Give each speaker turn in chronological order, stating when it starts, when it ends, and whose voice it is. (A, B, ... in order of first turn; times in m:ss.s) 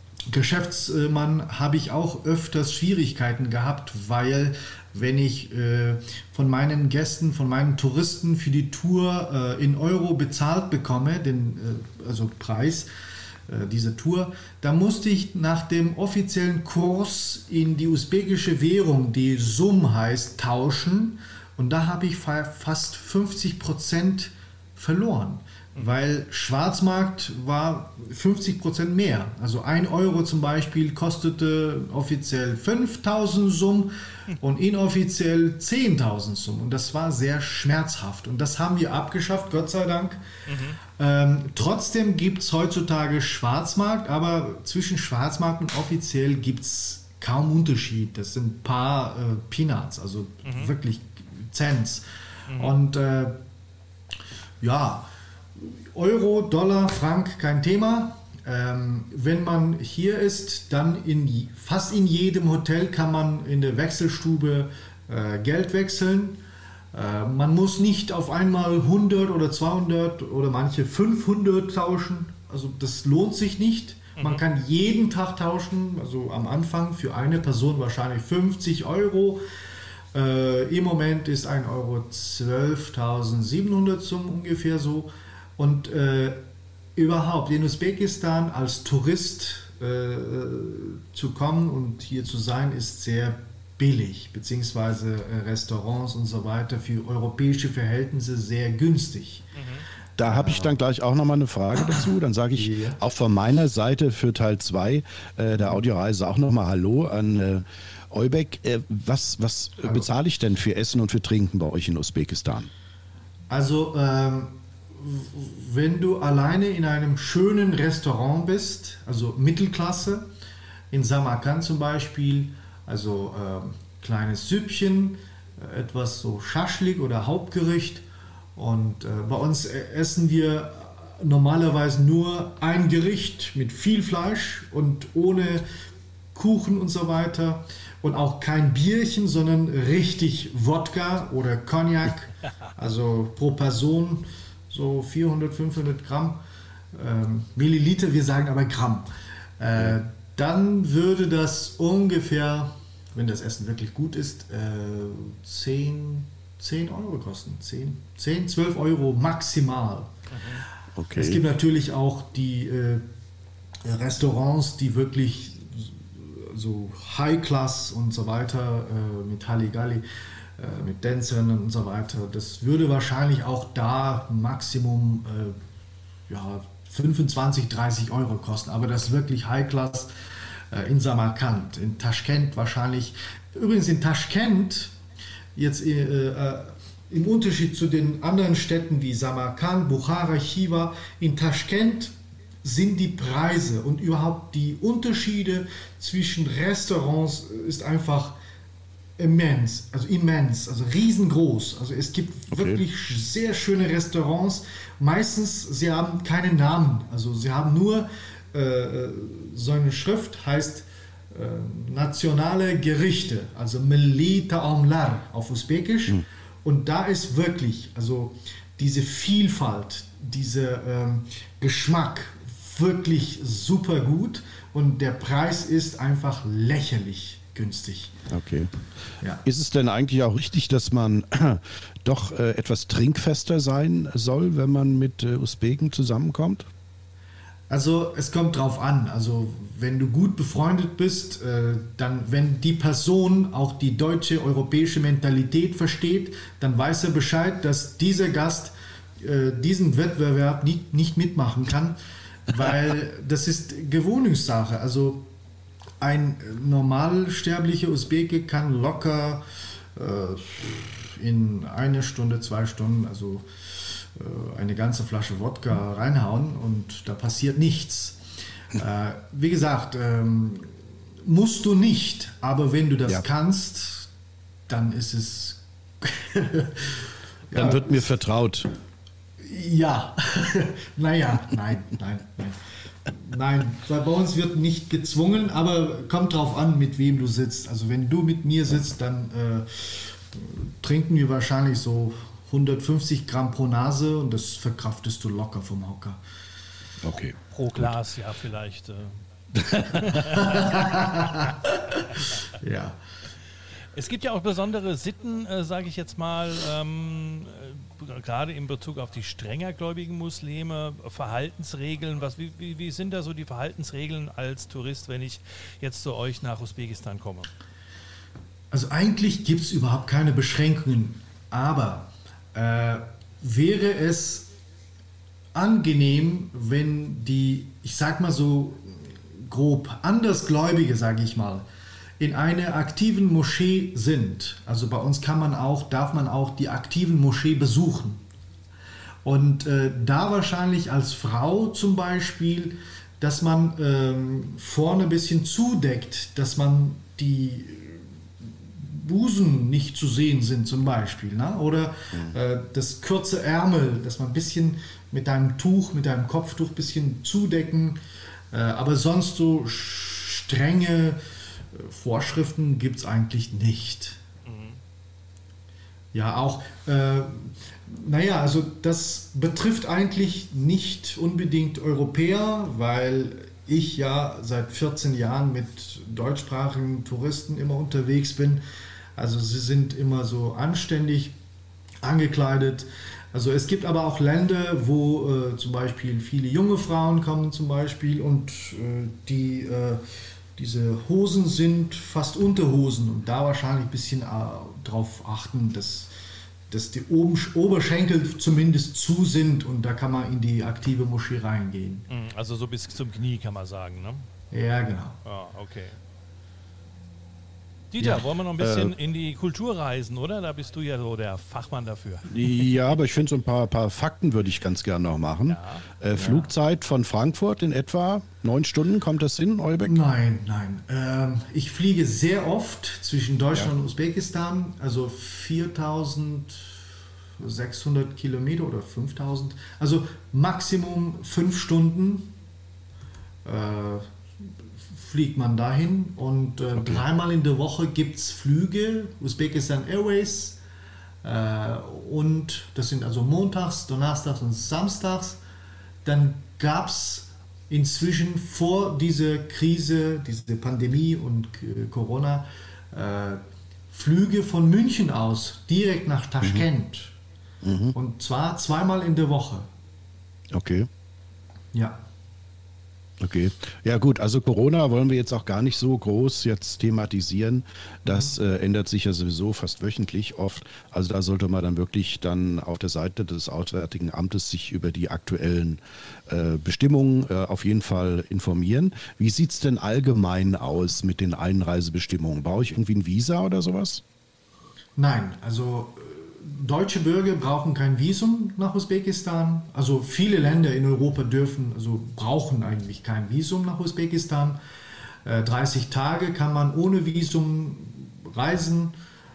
0:00.3-0:12.9 A
0:13.5-0:40.2 A
0:40.4-0:40.8 B
0:41.0-0:52.0 A
0:50.4-0:50.7 B
0:52.5-0:52.7 B
0:52.6-0:53.4 A
0:54.6-1:06.4 A
1:06.9-1:19.4 A
1:14.2-1:14.4 B
1:20.1-1:26.4 A
1:27.0-1:39.5 A
1:39.6-1:39.8 B
1:40.2-1:52.7 C
1:40.3-1:40.8 A
1:42.5-1:43.0 A
1:53.5-2:00.3 A
2:00.9-2:08.0 A
2:08.6-2:15.6 A
2:16.3-2:26.4 A
2:26.9-2:40.1 A
2:40.3-2:40.6 B
2:41.0-2:41.4 C
2:41.1-2:43.0 A
2:43.8-2:50.0 A
2:50.6-2:55.6 A
2:56.3-3:00.1 A
3:00.7-3:04.9 A
3:05.5-3:18.4 A
3:19.2-3:48.1 A
3:22.5-3:22.8 C
3:48.3-3:48.7 C
3:49.4-3:56.7 C
3:57.7-4:12.0 A
4:12.5-4:15.3 A
4:16.0-4:19.4 A
4:19.9-4:28.2 A
4:28.7-4:34.1 A
4:34.7-4:38.1 A
4:37.5-4:38.7 C
4:39.4-4:56.2 A
4:57.0-4:57.9 C
4:57.5-4:59.2 B
4:59.5-5:00.2 C
4:59.7-5:01.4 B
5:00.4-5:03.0 A
5:03.9-5:17.5 B
5:18.7-5:24.5 A
5:25.5-5:31.6 A
5:32.2-5:38.2 A
5:39.2-5:58.0 A
5:58.5-6:01.2 A
6:01.7-6:04.2 A
6:04.4-6:04.8 B
6:06.1-6:18.6 A
6:19.2-6:21.3 A
6:22.0-6:30.0 A
6:30.6-6:36.1 A
6:36.7-6:42.1 A
6:42.1-6:44.3 B
6:44.5-6:45.2 A
6:45.2-6:46.0 B
6:47.9-6:52.6 B
6:48.0-6:48.9 C
6:52.3-7:00.0 C
6:55.5-6:55.8 B
6:56.2-6:56.4 A
6:59.8-7:06.8 A
7:07.4-7:12.3 A
7:13.4-7:14.0 A
7:14.9-7:20.6 A
7:16.8-7:17.0 C
7:21.2-7:25.4 A
7:26.0-7:37.1 A
7:37.6-7:38.0 C
7:37.9-7:39.7 A
7:40.5-7:40.9 C
7:41.7-7:42.0 A
7:43.2-8:04.0 C
7:48.0-7:48.3 A
8:05.0-8:14.6 A
8:15.2-8:18.9 A